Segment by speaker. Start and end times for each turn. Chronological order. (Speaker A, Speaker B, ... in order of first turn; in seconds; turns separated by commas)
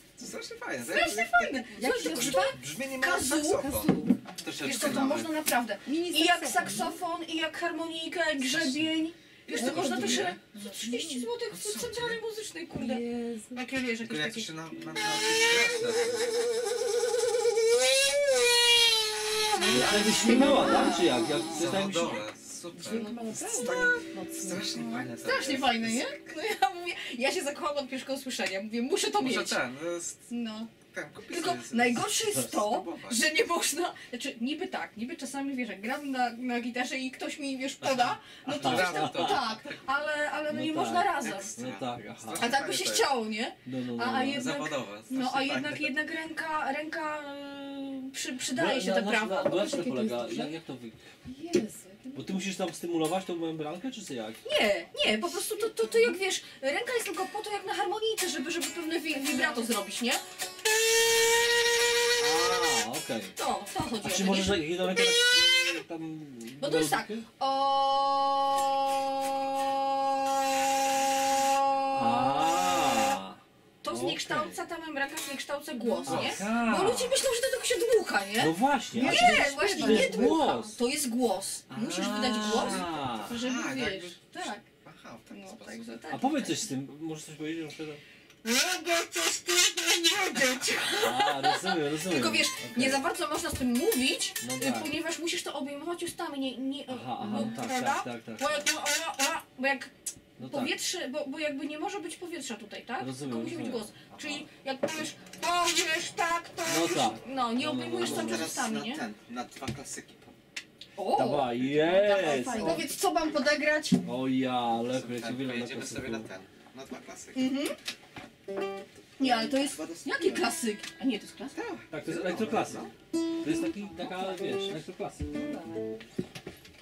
Speaker A: 0.2-5.4, Speaker B: 0.8-3.6, Speaker C: 1.7-2.5, Speaker C: 3.5-5.1, Speaker B: 4.6-14.5, Speaker C: 5.8-7.0, Speaker A: 8.4-8.9, Speaker A: 9.5-10.4, Speaker C: 9.5-11.3, Speaker A: 11.4-12.2, Speaker C: 12.7-13.6, Speaker A: 13.9-16.3, Speaker C: 19.5-21.0, Speaker D: 19.6-22.2, Speaker B: 19.8-21.1, Speaker A: 21.5-26.1, Speaker C: 22.7-25.1, Speaker B: 24.7-29.6, Speaker A: 29.2-30.2, Speaker B: 30.3-30.7, Speaker A: 30.8-33.4, Speaker B: 31.3-41.5, Speaker A: 37.8-39.8, Speaker D: 38.4-39.5, Speaker D: 40.5-42.5, Speaker A: 41.2-43.1, Speaker B: 42.3-49.9, Speaker D: 43.6-44.5, Speaker A: 44.3-45.9, Speaker D: 48.5-51.0, Speaker C: 49.6-50.5, Speaker C: 51.2-52.4, Speaker D: 52.1-54.4, Speaker B: 54.4-60.2, Speaker C: 59.2-59.6, Speaker D: 62.2-63.3, Speaker B: 63.3-65.5, Speaker D: 64.0-67.2, Speaker B: 66.6-73.2, Speaker D: 71.9-74.6, Speaker B: 73.8-84.6, Speaker D: 76.0-77.2, Speaker A: 76.0-76.5, Speaker D: 78.4-80.8, Speaker C: 78.9-80.4, Speaker D: 81.7-83.4, Speaker A: 82.3-85.9, Speaker B: 85.3-86.7, Speaker D: 86.1-88.0, Speaker B: 88.4-109.0, Speaker D: 90.9-93.0, Speaker D: 94.4-95.0, Speaker D: 96.9-98.7, Speaker D: 100.4-100.7, Speaker D: 103.0-104.4, Speaker D: 106.6-108.5, Speaker A: 108.0-110.3, Speaker B: 111.0-114.0, Speaker D: 111.1-112.9, Speaker C: 112.5-112.9, Speaker D: 114.0-116.3, Speaker A: 114.8-117.5, Speaker B: 117.3-117.8, Speaker B: 119.2-121.5, Speaker A: 119.2-120.5, Speaker A: 121.5-122.9, Speaker D: 121.9-122.9, Speaker D: 123.4-125.3, Speaker B: 125.3-125.8